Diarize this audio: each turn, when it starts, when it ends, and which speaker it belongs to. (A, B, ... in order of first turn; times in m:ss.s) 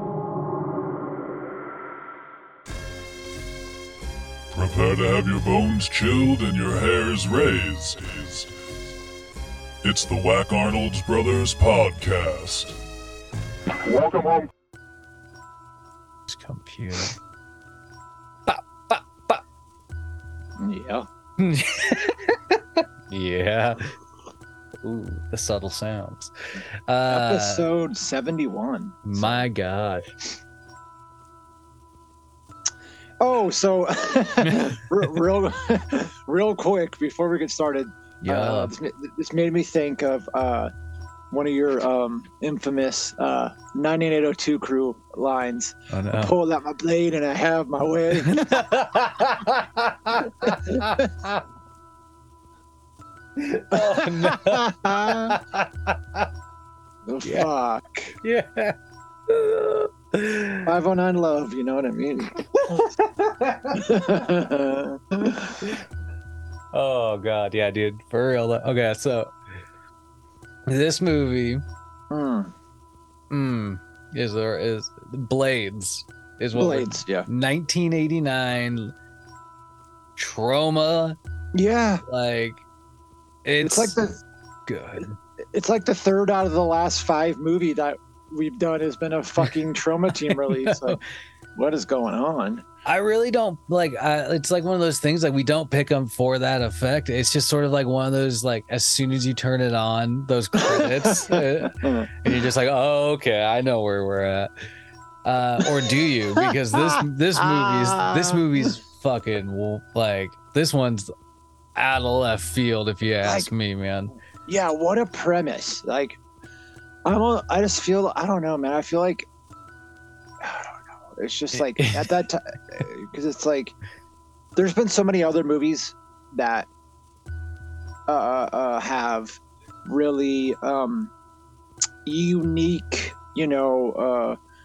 0:04.5-0:08.5 A
0:09.8-0:12.8 A
0:13.8-0:14.4 A
0:16.3-0:17.2 B
0:18.5-0:19.4 B
0:20.6-0:21.1 C
0:21.4-0:23.9 B
0:24.8-0:26.3 B
0:26.9-0:27.7 B
0:27.1-0:29.5 C
0:29.0-0:30.0 B
0:33.2-0:40.7 C
0:34.4-0:35.1 B
0:38.2-0:38.7 B
0:41.3-0:48.7 C
0:45.9-0:46.3 B
0:48.2-0:51.4 B
0:50.4-0:51.1 C
0:53.4-0:56.3 B
0:53.7-0:55.4 C
0:57.1-0:58.2 C
0:57.2-0:57.5 B
0:58.2-0:58.8 B
0:59.3-1:00.7 B
1:00.7-1:02.4 C
1:02.5-1:04.0 B
1:03.7-1:05.7 C
1:06.7-1:09.3 B
1:10.7-1:11.6 B
1:12.1-1:12.5 C
1:13.3-1:18.9 B
1:16.6-1:17.3 C
1:20.2-1:21.2 B
1:21.6-1:22.0 C
1:22.1-1:22.6 B
1:23.4-1:24.0 B
1:23.6-1:24.2 C
1:24.7-1:25.2 B
1:25.5-1:31.0 C
1:30.2-1:31.0 B
1:31.6-1:32.6 C
1:32.8-1:44.5 B
1:40.6-1:42.3 C
1:45.2-1:51.1 B
1:45.6-1:48.7 C
1:51.8-1:54.2 B
1:53.2-1:53.5 C
1:54.5-1:56.2 C
1:57.1-1:59.3 C
2:00.4-2:03.8 C
2:01.5-2:02.1 B
2:04.6-2:06.7 C
2:08.1-2:11.1 C
2:12.1-2:14.4 C